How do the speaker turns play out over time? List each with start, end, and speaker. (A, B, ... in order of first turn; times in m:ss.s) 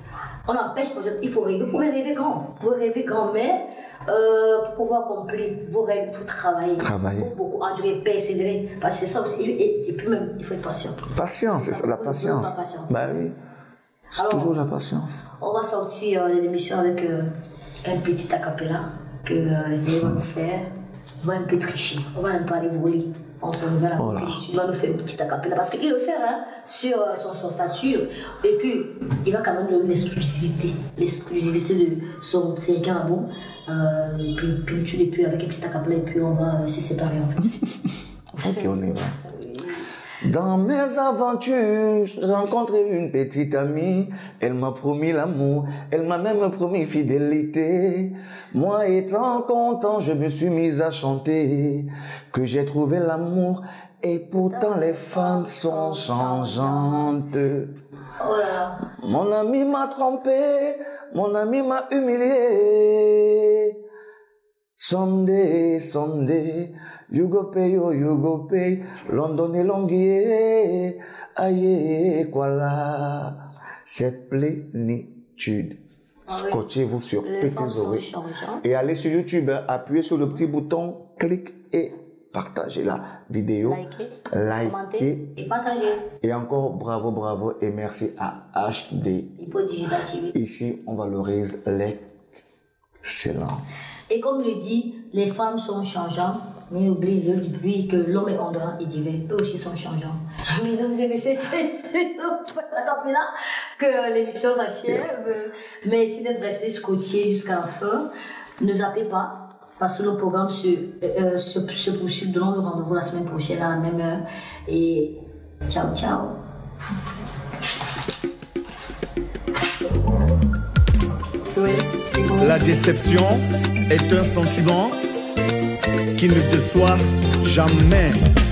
0:00.4-0:13.2 A
0:06.8-0:07.3 B
0:11.1-0:13.4 B
0:14.1-0:15.3 B
0:14.2-0:14.5 A
0:15.4-0:17.3 A
0:17.8-0:20.7 A
0:21.2-0:37.6 A
0:24.0-0:24.4 B
0:38.4-0:39.9 A
0:38.4-0:39.2 B
0:40.2-0:57.7 B
0:54.5-0:57.1 A
0:58.2-0:58.8 A
0:59.0-1:03.8 B
1:04.8-1:18.1 B
1:16.3-1:16.6 A
1:17.2-1:18.7 A
1:18.6-1:25.3 B
1:23.6-1:26.1 A
1:26.2-1:29.4 B
1:29.4-1:30.3 A
1:30.3-1:32.2 B
1:33.0-1:33.8 B
1:34.1-1:48.1 A
1:44.9-1:45.1 B
1:48.6-1:56.4 A
2:01.4-2:02.6 A
2:02.5-2:03.2 C
2:03.9-2:04.9 B
2:06.2-2:06.8 C
2:07.5-2:07.9 B
2:07.7-2:08.1 C